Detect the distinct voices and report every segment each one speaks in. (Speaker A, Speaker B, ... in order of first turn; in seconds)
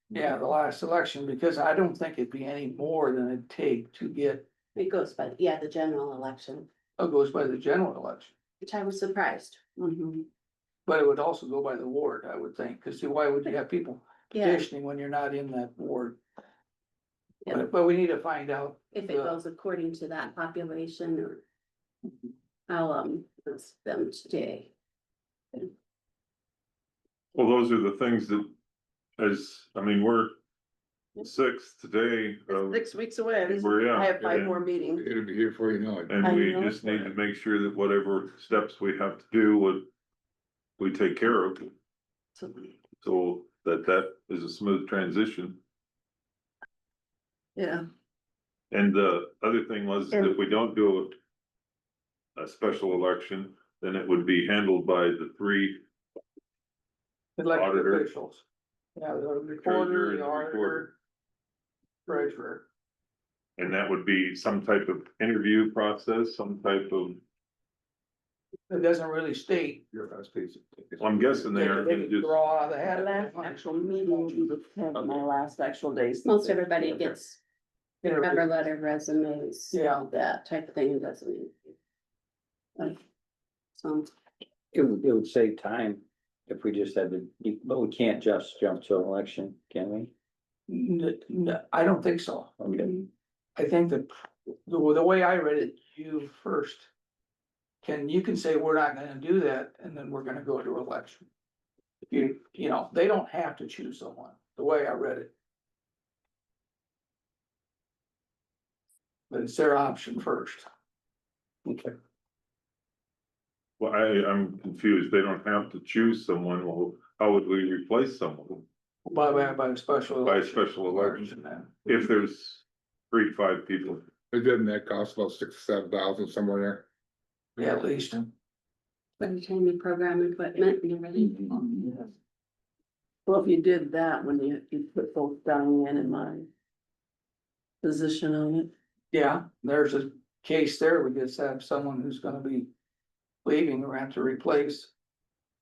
Speaker A: 0.1-4.5, 7.0-8.3, 10.8-16.2, 17.5-19.4, 57.4-58.4, 59.0-60.9, 62.1-62.7, 68.7-69.9, 71.5-74.4, 78.0-78.5, 79.7-80.1, 90.7-92.5, 93.5-96.9, 97.8-101.3, 102.1-105.3, 109.3-110.7, 119.0-121.7, 127.6-128.3, 131.5-131.8, 139.1-142.7, 143.4-144.9
Speaker B: 4.7-6.7, 8.6-9.6, 14.3-14.7, 18.9-21.4, 22.7-24.7, 76.2-77.4, 78.0-81.7, 83.8-84.1, 129.2-131.5
Speaker C: 9.8-10.3, 32.5-35.1, 36.2-36.8, 42.4-42.7, 47.5-47.8, 72.8-76.7, 133.3-136.5, 137.8-138.7
Speaker D: 27.3-28.5, 29.2-30.4, 31.2-32.8, 33.4-34.6, 36.1-39.9, 40.8-41.7, 43.0-45.6, 48.7-51.2, 52.4-55.8, 57.5-58.1, 59.6-60.9, 63.6-67.2, 71.0-72.4, 113.8-118.6, 120.2-121.3, 121.8-124.0
Speaker E: 35.0-37.1, 124.3-126.8
Speaker F: 84.7-90.1, 92.6-93.0, 111.7-111.9